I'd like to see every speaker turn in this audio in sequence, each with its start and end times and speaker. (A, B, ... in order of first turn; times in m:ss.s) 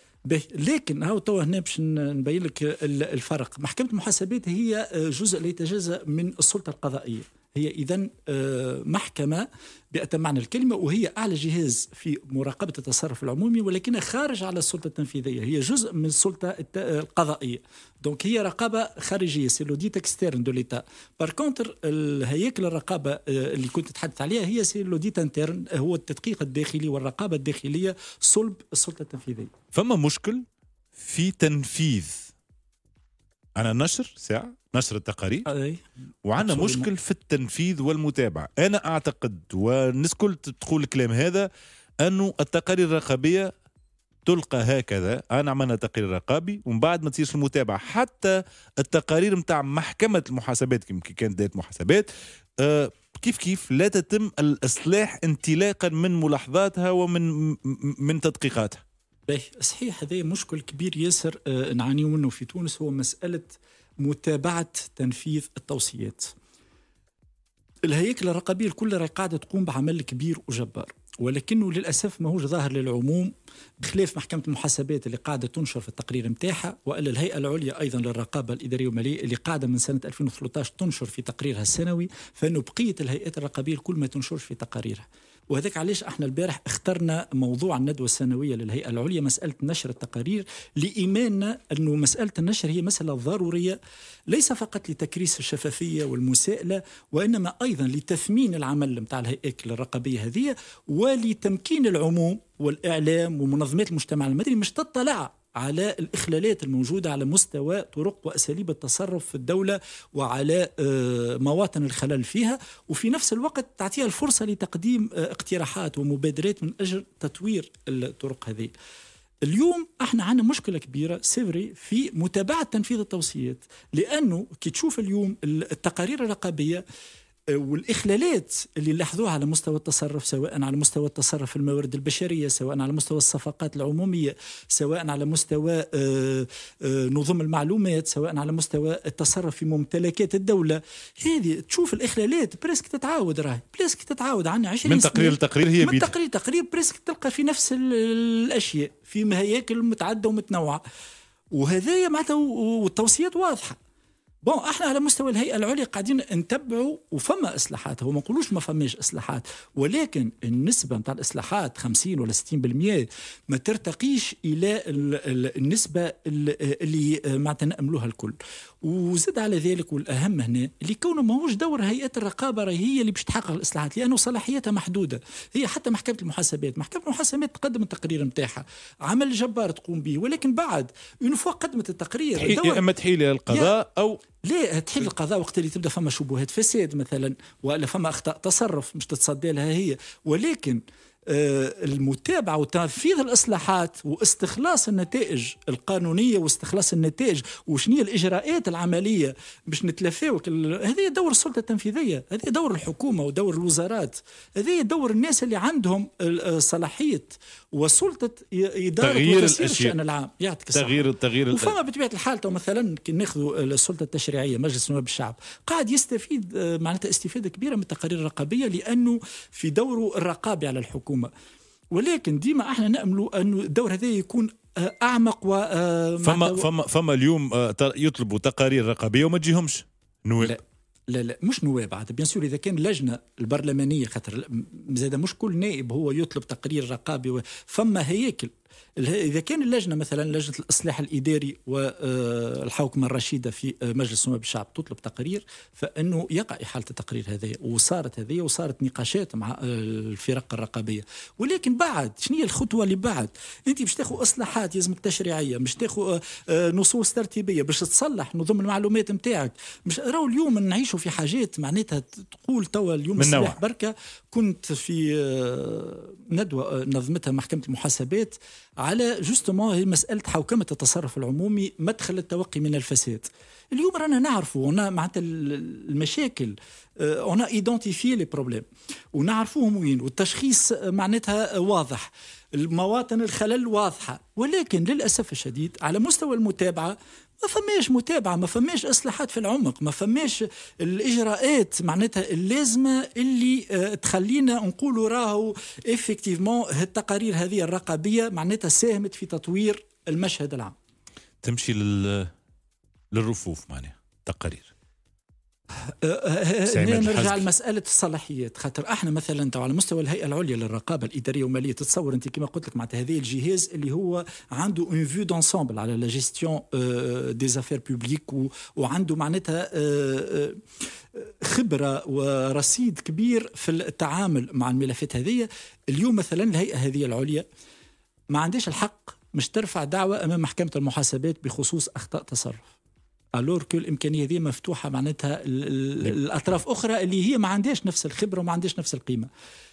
0:00.3-0:29.5 A
0:29.7-0:30.4 B
0:31.0-0:32.3 B
0:33.6-0:35.5 B
0:35.5-0:35.8 A
0:36.2-0:41.5 B
0:36.4-0:36.9 A
0:42.0-0:43.5 B
0:44.2-0:52.1 B
0:52.6-0:58.8 B
0:59.3-1:06.3 A
1:07.8-1:33.8 A
1:34.3-1:58.7 A
1:59.4-2:06.8 A
2:07.5-2:30.8 A
2:24.8-2:26.1 B
2:31.5-2:33.8 A
2:34.4-3:02.8 A
3:02.4-3:04.2 B
3:03.5-3:03.8 A
3:04.4-3:41.3 A
3:29.0-3:30.0 B
3:30.7-3:31.8 B
3:41.9-3:46.7 A
3:46.2-3:50.6 B
3:50.4-5:00.7 A
4:23.2-4:23.6 B
5:01.4-5:02.3 B
5:03.1-5:04.7 B
5:05.8-5:20.6 A
5:06.7-5:07.4 B
5:21.1-5:27.4 A
5:28.3-5:32.6 A
5:33.3-5:39.3 A